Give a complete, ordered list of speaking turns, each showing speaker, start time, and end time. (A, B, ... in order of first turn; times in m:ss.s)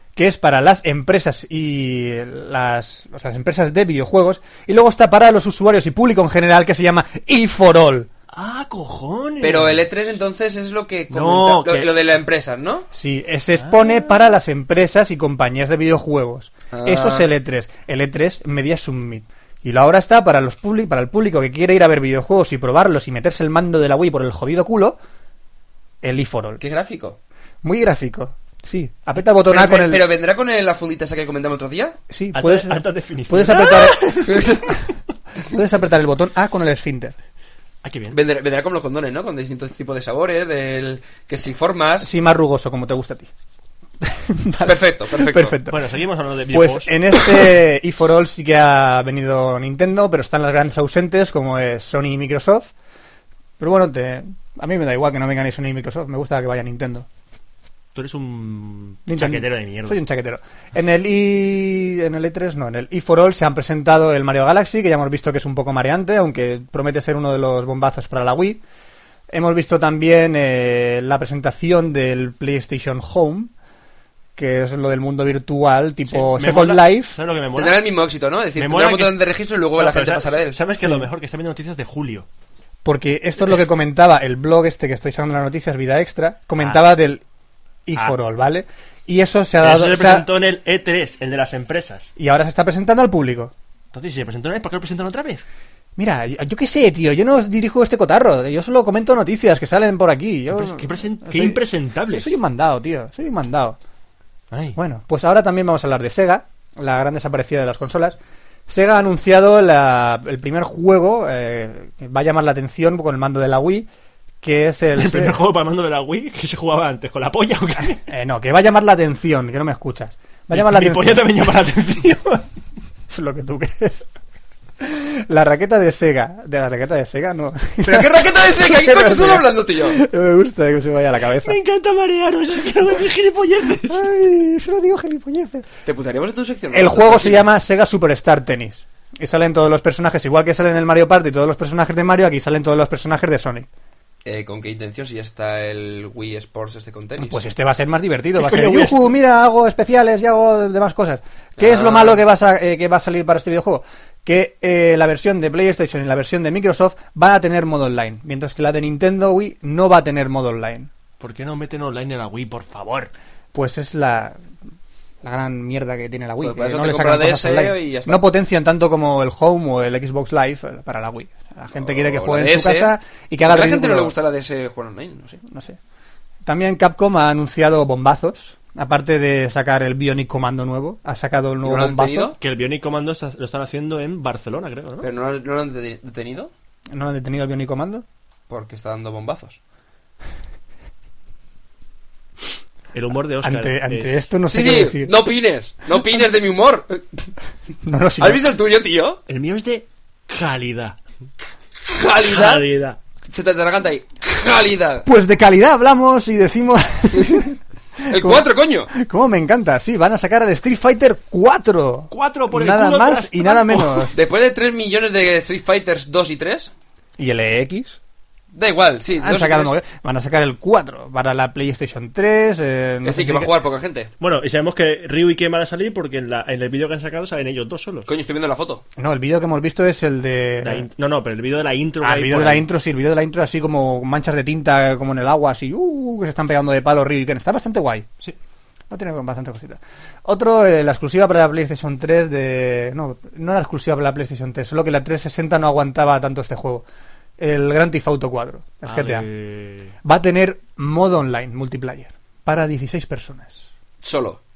0:00.2-0:08.1 A
0:08.3-0:09.8 B
0:09.4-0:12.9 C
0:11.1-0:11.9 B
0:12.9-0:25.0 A
0:13.6-0:14.1 B
0:16.7-0:17.3 C
0:26.0-0:26.6 A
0:26.6-0:27.2 C
0:27.6-0:30.1 A
0:29.5-0:32.0 C
0:32.1-0:34.4 A
0:32.3-0:34.5 B
0:34.3-0:34.6 C
0:35.5-0:37.2 A
0:37.8-0:38.2 B
0:38.1-0:42.1 C
0:42.0-0:43.3 A
0:44.0-0:45.8 A
0:44.6-0:45.6 C
0:45.7-0:47.0 B
0:46.5-0:52.7 A
0:53.6-0:57.1 A
0:57.9-1:00.0 B
0:59.0-1:08.6 A
1:09.3-1:13.5 A
1:14.4-1:17.2 A
1:16.1-1:17.8 B
1:17.5-1:20.6 C
1:18.6-1:19.2 B
1:19.8-1:22.3 B
1:20.8-1:21.1 A
1:22.8-1:27.2 A
1:27.8-1:30.3 A
1:29.6-1:32.1 B
1:32.2-1:33.5 A
1:33.9-1:35.4 B
1:36.0-1:43.8 A
1:40.5-1:42.4 B
1:44.5-1:44.8 B
1:44.7-1:53.9 A
1:54.4-1:55.4 A
1:54.9-1:58.0 B
1:58.0-2:01.3 A
2:00.5-2:02.5 B
2:03.1-2:04.0 A
2:04.8-2:11.6 A
2:07.8-2:10.0 C
2:11.4-2:14.0 B
2:13.9-2:15.7 A
2:15.8-2:17.5 C
2:16.7-2:23.7 A
2:24.2-2:27.4 C
2:27.2-2:40.9 A
2:28.4-2:29.1 B
2:31.6-2:32.2 C
2:41.2-2:43.1 B
2:43.5-2:44.4 A
2:45.2-2:54.1 A
2:46.4-2:48.2 C
2:51.7-2:52.9 C
2:53.5-2:55.4 C
2:55.4-2:55.8 A
2:56.4-3:02.3 A
3:01.6-3:02.4 C
3:02.4-3:05.1 B
3:05.0-3:06.5 C
3:06.9-3:08.0 A
3:08.5-3:09.6 C
3:12.9-3:14.2 B
3:13.4-3:15.1 A
3:14.5-3:17.0 C
3:17.8-3:18.4 A
3:18.2-3:19.2 C
3:19.3-3:21.0 B
3:21.8-3:22.6 C
3:22.3-3:23.0 B
3:23.3-3:25.1 C
3:25.0-3:27.6 A
3:27.1-3:27.4 C
3:28.1-3:28.9 C
3:28.1-3:34.1 A
3:32.1-3:34.1 B
3:34.1-3:36.7 C
3:37.2-3:38.0 A
3:38.5-3:39.7 C
3:39.2-3:43.5 A
3:43.0-3:44.1 C
3:44.2-3:48.1 B
3:48.1-3:48.8 C
3:49.0-3:50.8 A
3:50.6-3:52.7 B
3:52.0-3:58.1 A
3:58.9-4:06.8 A
4:07.4-4:09.3 A
4:08.8-4:09.9 B
4:10.0-4:13.7 A
4:14.0-4:14.4 C